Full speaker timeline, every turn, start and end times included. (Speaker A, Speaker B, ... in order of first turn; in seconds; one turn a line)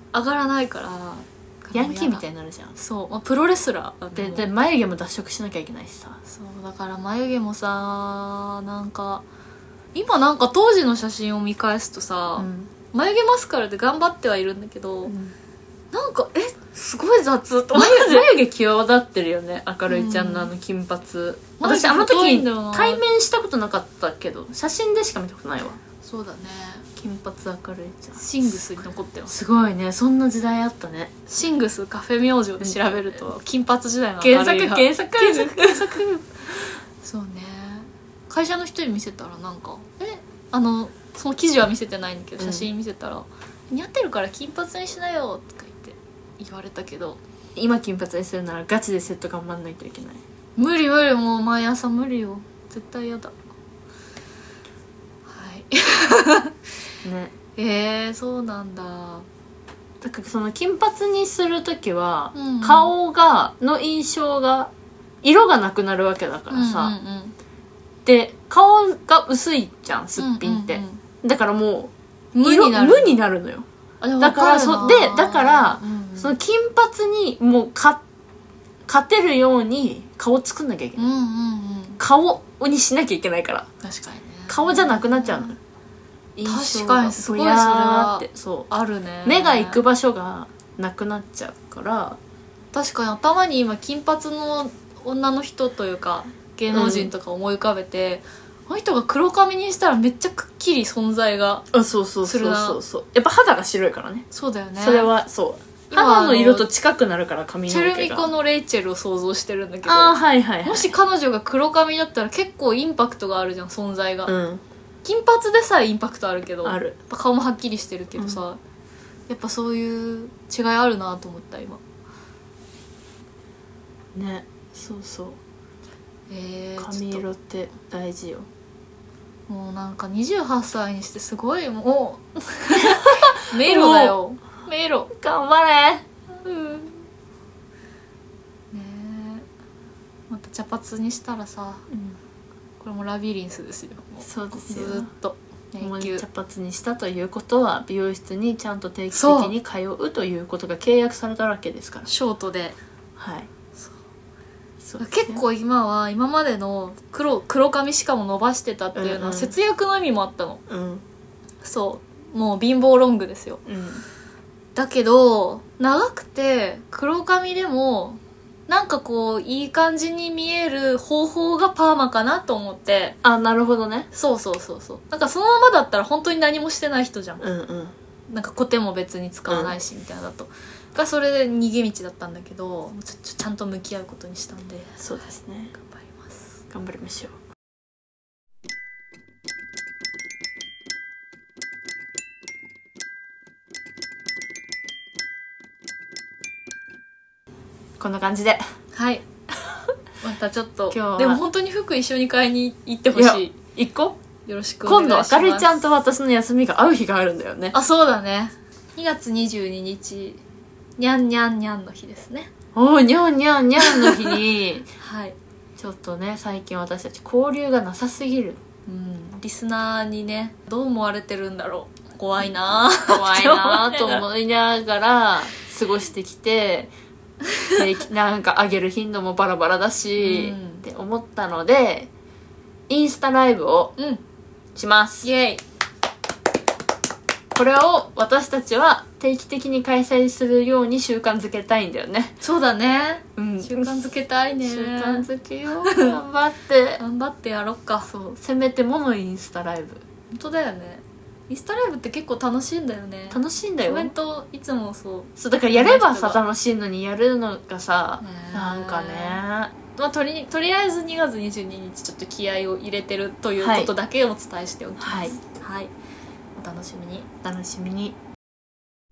Speaker A: 0.1-2.2
Speaker B: 1.7-2.7
Speaker A: 2.8-4.5
Speaker B: 4.2-6.2
Speaker A: 6.3-9.2
Speaker A: 9.9-15.1
Speaker B: 12.4-12.7
Speaker B: 15.1-15.3
Speaker A: 15.9-18.3
Speaker B: 17.7-25.8
Speaker A: 19.9-20.5
Speaker A: 21.6-23.0
Speaker A: 26.0-26.9
Speaker B: 27.0-28.6
Speaker A: 28.2-29.3
Speaker B: 29.3-31.1
Speaker A: 31.3-36.0
Speaker B: 34.2-36.3
Speaker A: 37.0-47.2
Speaker B: 42.4-42.7
Speaker B: 47.6-50.2
Speaker A: 50.6-53.3
Speaker A: 55.3-56.6
Speaker B: 57.0-57.3
Speaker A: 57.6-59.3
Speaker B: 60.0-64.7
Speaker A: 62.4-62.9
Speaker B: 65.2-66.9
Speaker A: 66.5-67.3
Speaker B: 68.0-71.9
Speaker A: 70.2-71.0
Speaker A: 72.3-73.2
Speaker B: 72.4-73.7
Speaker A: 74.0-76.3
Speaker B: 74.2-78.0
Speaker B: 78.9-81.1
Speaker A: 81.0-82.0
Speaker B: 82.0-83.7
Speaker A: 83.8-85.5
Speaker B: 84.5-85.6
Speaker B: 86.4-88.7
Speaker A: 86.5-89.8
Speaker B: 89.2-92.2
Speaker A: 92.7-101.7
Speaker B: 96.7-97.1
Speaker B: 101.7-104.3
Speaker A: 102.2-102.8
Speaker A: 104.3-105.1
Speaker B: 104.8-108.3
Speaker A: 105.9-106.7
Speaker A: 107.7-114.3
Speaker B: 109.9-110.9
Speaker B: 114.3-114.6
Speaker A: 115.0-118.6
Speaker B: 116.6-117.0
Speaker A: 119.3-121.8
Speaker B: 124.2-125.4
Speaker A: 126.3-127.2
Speaker B: 126.8-128.5
Speaker A: 129.5-135.1
Speaker B: 132.8-134.2
Speaker B: 135.1-136.1
Speaker A: 136.4-137.0
Speaker A: 138.7-139.5
Speaker A: 140.3-141.9
Speaker B: 141.9-142.2
Speaker A: 142.8-146.2
Speaker B: 144.2-145.1
Speaker B: 145.8-152.1
Speaker A: 149.1-149.5
Speaker A: 152.1-152.8
Speaker B: 153.2-153.5
Speaker B: 154.8-155.4
Speaker A: 155.0-160.6
Speaker B: 158.9-159.5
Speaker B: 160.7-161.0
Speaker A: 161.6-163.6
Speaker B: 163.7-164.0
Speaker A: 164.8-173.2
Speaker B: 173.2-174.1
Speaker A: 174.1-177.4
Speaker B: 177.4-177.9
Speaker A: 178.3-185.1
Speaker B: 179.5-179.8
Speaker B: 185.0-185.7
Speaker A: 185.7-186.5
Speaker B: 186.7-187.4
Speaker B: 198.0-198.6
Speaker A: 198.9-199.2
Speaker A: 200.2-203.6
Speaker B: 200.9-201.4
Speaker B: 203.1-204.2
Speaker A: 204.5-205.8
Speaker B: 204.8-207.8
Speaker A: 207.7-210.4
Speaker A: 211.0-212.5
Speaker B: 212.8-214.9
Speaker A: 213.8-214.4
Speaker A: 215.0-215.4
Speaker B: 215.8-218.6
Speaker A: 218.9-224.2
Speaker B: 223.1-226.9
Speaker A: 227.6-227.8
Speaker B: 227.8-232.1
Speaker A: 230.2-230.9
Speaker B: 232.9-233.9
Speaker B: 234.8-235.3
Speaker A: 235.2-235.6
Speaker B: 237.5-242.3
Speaker A: 242.4-245.3
Speaker B: 243.4-247.0
Speaker A: 245.8-246.2
Speaker A: 247.0-248.1
Speaker B: 248.1-250.0
Speaker A: 250.3-256.4
Speaker B: 253.3-254.1
Speaker B: 255.4-259.7
Speaker A: 258.2-259.4
Speaker A: 259.9-265.9
Speaker B: 263.6-263.9
Speaker B: 265.0-265.4
Speaker A: 266.6-267.3
Speaker B: 267.4-268.2